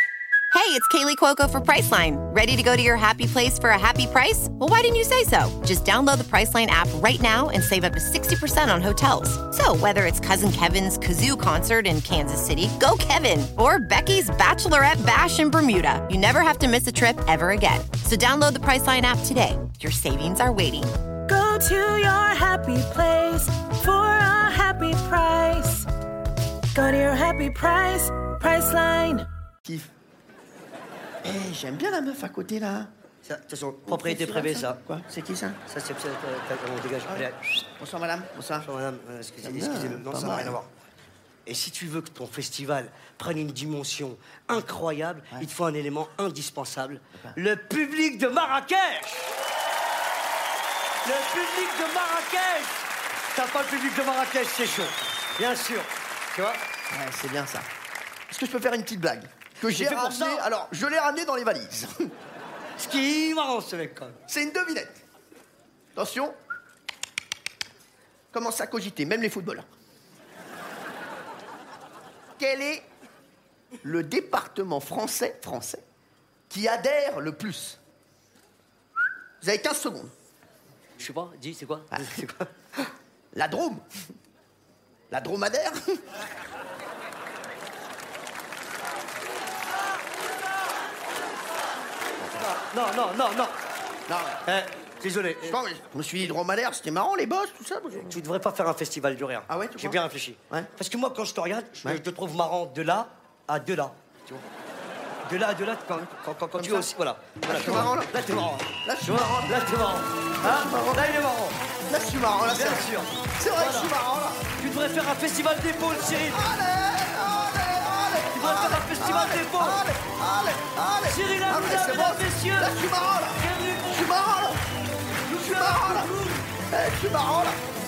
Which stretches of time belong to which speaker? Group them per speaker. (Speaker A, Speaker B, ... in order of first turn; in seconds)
Speaker A: 0.5-20.9
Speaker B: 21.3-25.9, 26.7-29.2
Speaker C: 29.6-29.9, 31.2-32.9, 33.9-35.6, 37.1-38.7, 39.4-40.6, 56.9-57.7, 58.3-61.9, 64.3-65.0, 65.9-66.4, 68.3-69.7, 72.4-72.9, 73.8-75.8, 76.5-77.8, 79.4-80.1, 83.3-83.8, 85.1-86.0, 94.1-94.4, 95.4-98.2, 99.5-100.7, 106.6-106.9, 107.4-109.6, 110.4-111.1, 111.9-114.5, 116.0-124.6, 125.4-126.1, 126.7-127.6
Speaker D: 33.2-34.8, 35.7-37.4, 38.6-40.7, 41.5-49.3, 51.0-56.6, 59.6-60.5, 62.8-64.2, 81.0-82.5, 92.4-93.6, 94.5-95.6, 98.1-104.4, 105.2-111.6, 112.5-113.9, 114.6-116.5, 118.3-119.9, 121.1-122.8, 123.4-124.1, 125.2-126.5